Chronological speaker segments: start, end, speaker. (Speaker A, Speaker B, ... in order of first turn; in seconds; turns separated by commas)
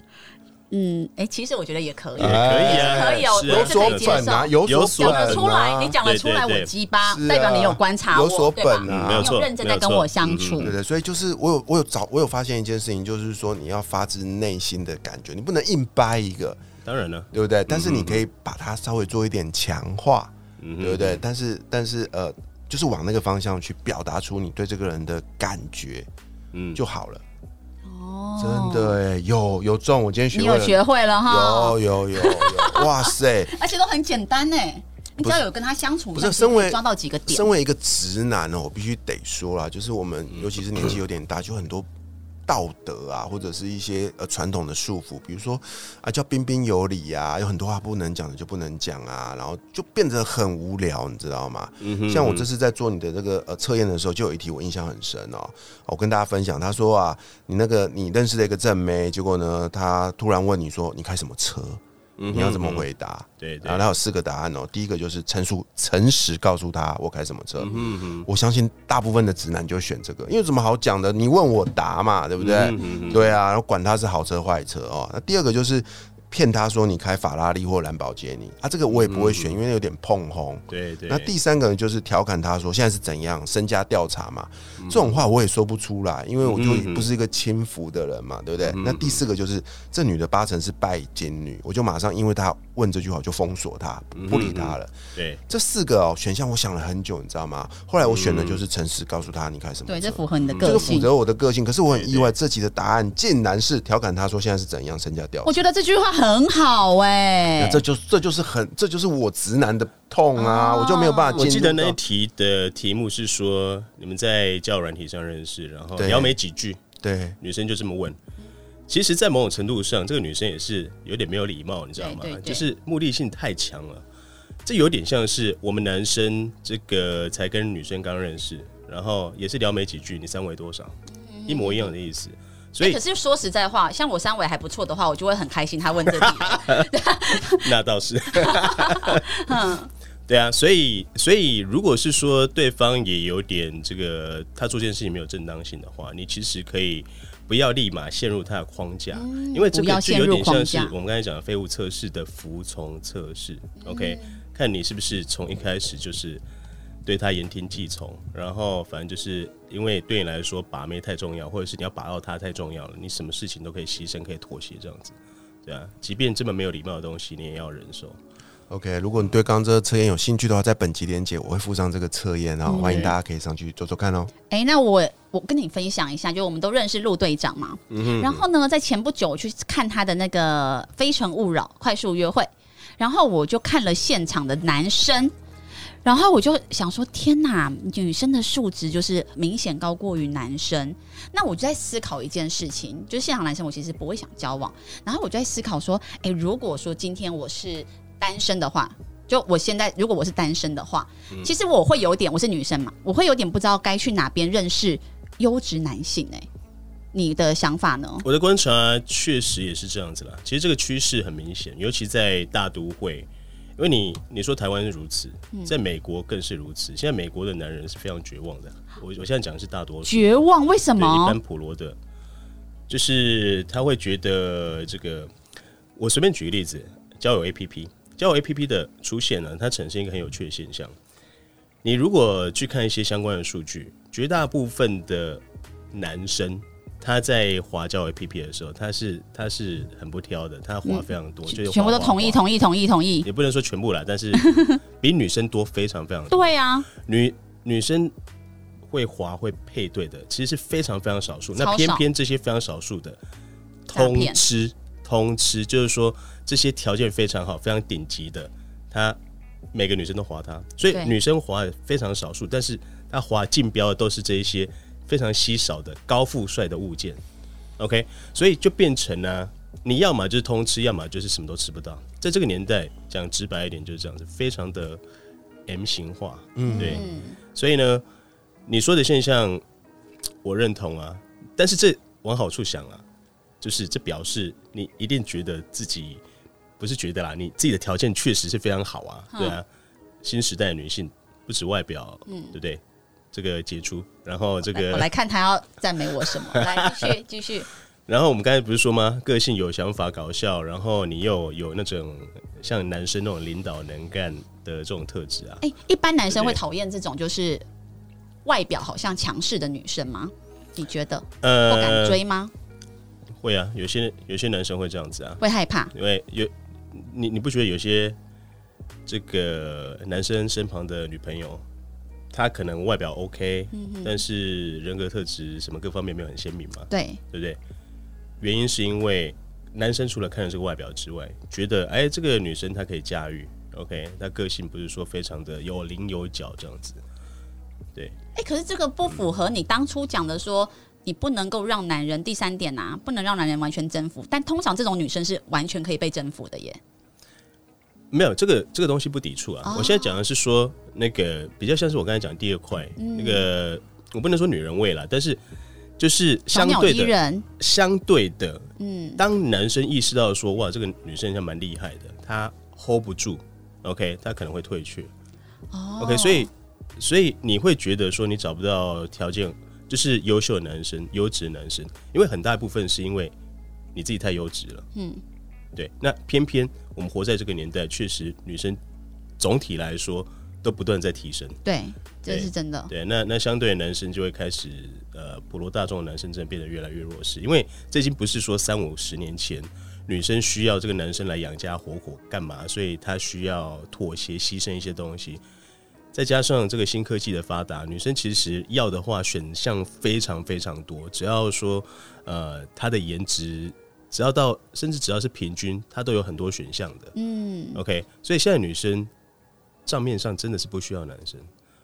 Speaker A: 0.7-10.7, Speaker B: 2.2-6.0, Speaker C: 2.2-5.5, Speaker C: 6.0-6.7, Speaker B: 7.0-9.3, Speaker C: 8.9-10.7, Speaker B: 10.6-16.6, Speaker C: 16.8-18.2, Speaker B: 17.3-26.1, Speaker C: 20.6-21.2, Speaker C: 26.5-26.8, Speaker B: 26.7-27.2, Speaker A: 27.9-29.0, Speaker B: 28.4-33.5, Speaker A: 30.3-37.5, Speaker B: 35.2-35.4, Speaker B: 36.1-41.9, Speaker B: 42.5-95.0, Speaker C: 51.8-52.5, Speaker C: 62.2-62.9, Speaker C: 63.4-63.8, Speaker C: 67.6-68.3, Speaker C: 72.4-73.3, Speaker C: 78.9-79.6, Speaker C: 80.7-81.3, Speaker C: 84.8-85.2, Speaker C: 86.4-87.1, Speaker C: 88.7-89.2, Speaker C: 94.2-95.4, Speaker B: 95.5-105.5, Speaker C: 98.0-98.6, Speaker A: 99.9-101.1, Speaker C: 100.4-100.9, Speaker C: 101.9-102.3, Speaker A: 105.4-107.8, Speaker B: 107.6-112.0, Speaker A: 110.3-111.6, Speaker C: 111.3-116.8, Speaker B: 116.0-116.4, Speaker B: 117.0-117.3, Speaker C: 117.4-118.2, Speaker C: 118.9-124.0, Speaker A: 122.0-122.7, Speaker C: 124.6-130.9, Speaker A: 131.1-131.9, Speaker C: 131.5-133.0, Speaker A: 132.8-137.7, Speaker C: 136.1-136.9, Speaker C: 137.5-139.6, Speaker A: 138.3-139.9, Speaker C: 140.3-156.4, Speaker A: 149.1-150.9, Speaker A: 153.8-154.4, Speaker C: 157.0-168.2, Speaker B: 168.7-174.3, Speaker A: 172.7-173.1, Speaker A: 174.5-185.3, Speaker C: 177.9-178.4, Speaker A: 186.0-206.5, Speaker A: 207.1-208.2, Speaker C: 208.2-220.4, Speaker A: 220.0-221.4, Speaker C: 220.9-222.0, Speaker C: 222.9-225.3, Speaker C: 225.9-230.9, Speaker C: 231.8-242.4, Speaker A: 240.8-243.3, Speaker C: 243.2-248.1, Speaker A: 244.3-244.8, Speaker A: 246.3-246.9, Speaker C: 248.9-253.2, Speaker A: 251.6-252.0, Speaker C: 253.9-259.2, Speaker A: 253.9-254.4, Speaker C: 259.7-267.2, Speaker C: 267.8-275.0, Speaker C: 275.7-278.0, Speaker B: 276.6-277.0, Speaker A: 276.7-277.4, Speaker C: 278.7-279.6, Speaker C: 280.4-283.0, Speaker C: 283.6-286.2, Speaker C: 286.8-289.6, Speaker A: 289.3-289.6, Speaker C: 290.2-292.8, Speaker A: 292.3-292.5, Speaker C: 293.3-295.1, Speaker A: 294.7-297.7, Speaker C: 296.5-297.1, Speaker C: 298.1-305.6, Speaker A: 305.6-307.6, Speaker C: 306.3-306.6, Speaker A: 308.4-312.5, Speaker C: 311.4-312.2, Speaker C: 313.4-315.4, Speaker A: 315.4-315.9, Speaker C: 315.9-318.2, Speaker C: 319.1-321.6, Speaker C: 322.3-327.6, Speaker A: 323.7-324.2, Speaker A: 326.9-327.2, Speaker C: 328.4-337.0, Speaker A: 338.3-346.8, Speaker C: 348.1-355.4, Speaker A: 349.6-350.2, Speaker A: 353.0-353.4, Speaker C: 356.0-365.1, Speaker A: 356.5-357.4, Speaker A: 358.8-359.2, Speaker A: 365.7-366.5, Speaker C: 366.0-373.3, Speaker C: 373.9-374.9, Speaker A: 374.9-375.2, Speaker C: 375.7-378.8, Speaker C: 379.4-381.6, Speaker A: 381.6-382.9, Speaker C: 382.3-395.4, Speaker C: 396.1-407.1, Speaker A: 407.1-407.8, Speaker C: 407.7-409.1, Speaker C: 409.9-411.5